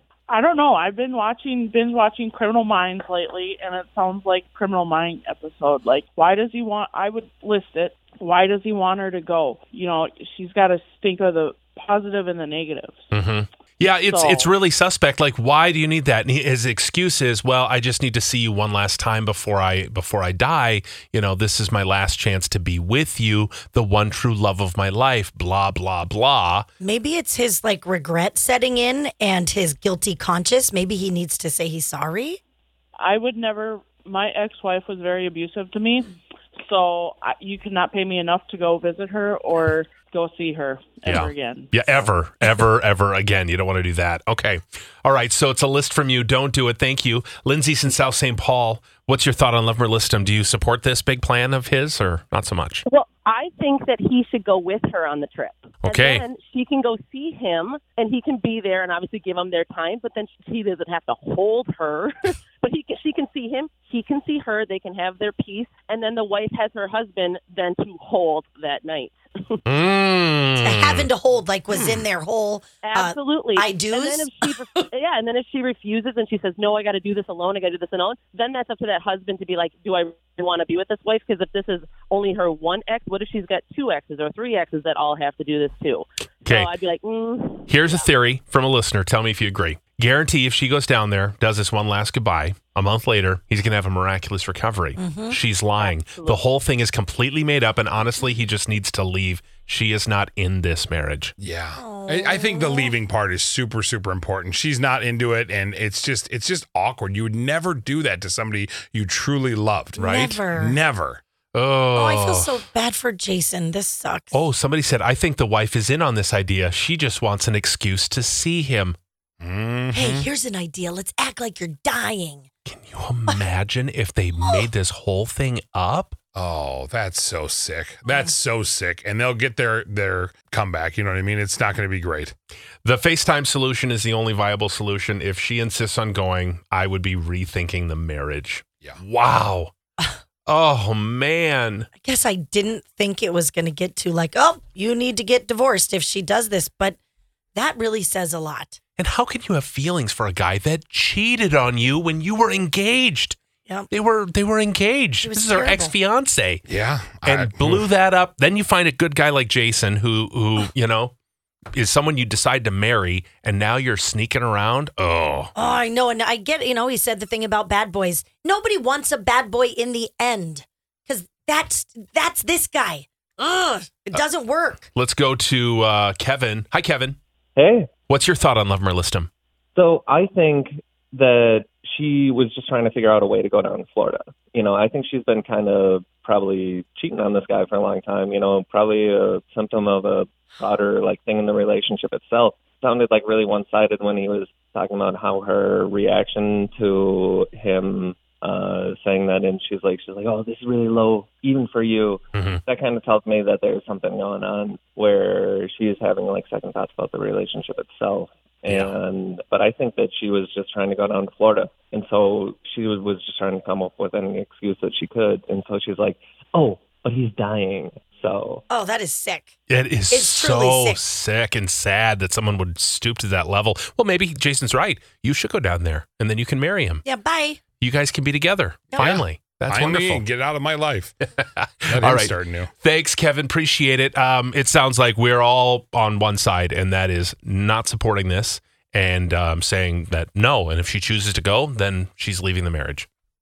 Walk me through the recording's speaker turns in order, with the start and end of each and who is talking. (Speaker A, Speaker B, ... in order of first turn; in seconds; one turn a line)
Speaker A: 0.3-13.0
Speaker B: 13.1-26.6
Speaker A: 14.1-14.5
Speaker C: 26.8-32.4
Speaker A: 33.0-36.1
Speaker A: 36.6-41.7
Speaker B: 41.0-52.8
Speaker D: 52.9-69.6
Speaker B: 55.8-56.2
Speaker B: 69.7-71.1
Speaker C: 70.6-74.9
Speaker D: 72.8-88.1
Speaker B: 86.5-86.7
Speaker B: 87.7-101.3
Speaker C: 95.0-95.4
Speaker D: 95.8-96.4
Speaker E: 101.4-111.2
Speaker C: 101.7-102.9
Speaker C: 110.0-110.8
Speaker B: 110.0-110.4
Speaker B: 111.5-112.6
Speaker C: 112.0-114.4
Speaker B: 114.3-119.0
Speaker E: 119.4-120.3
Speaker C: 119.9-122.5
Speaker B: 122.7-126.2
Speaker C: 124.4-124.7
Speaker E: 126.3-132.3
Speaker B: 132.8-139.7
Speaker B: 140.5-141.9
Speaker C: 142.0-147.0
Speaker C: 147.5-148.8
Speaker B: 149.0-153.4
Speaker B: 153.9-156.6
Speaker C: 155.2-155.9
Speaker E: 156.7-157.9
Speaker B: 157.2-161.1
Speaker B: 161.7-165.5
Speaker C: 165.5-174.9
Speaker B: 174.9-177.2
Speaker F: 177.6-177.9
Speaker B: 178.1-179.3
Speaker F: 179.8-218.6
Speaker B: 202.3-202.6
Speaker B: 208.7-208.9
Speaker C: 218.7-219.5
Speaker B: 219.7-227.0
Speaker C: 220.1-221.0
Speaker C: 227.0-227.6
Speaker B: 227.8-230.2
Speaker E: 228.9-231.1
Speaker B: 231.2-243.1
Speaker E: 231.9-232.7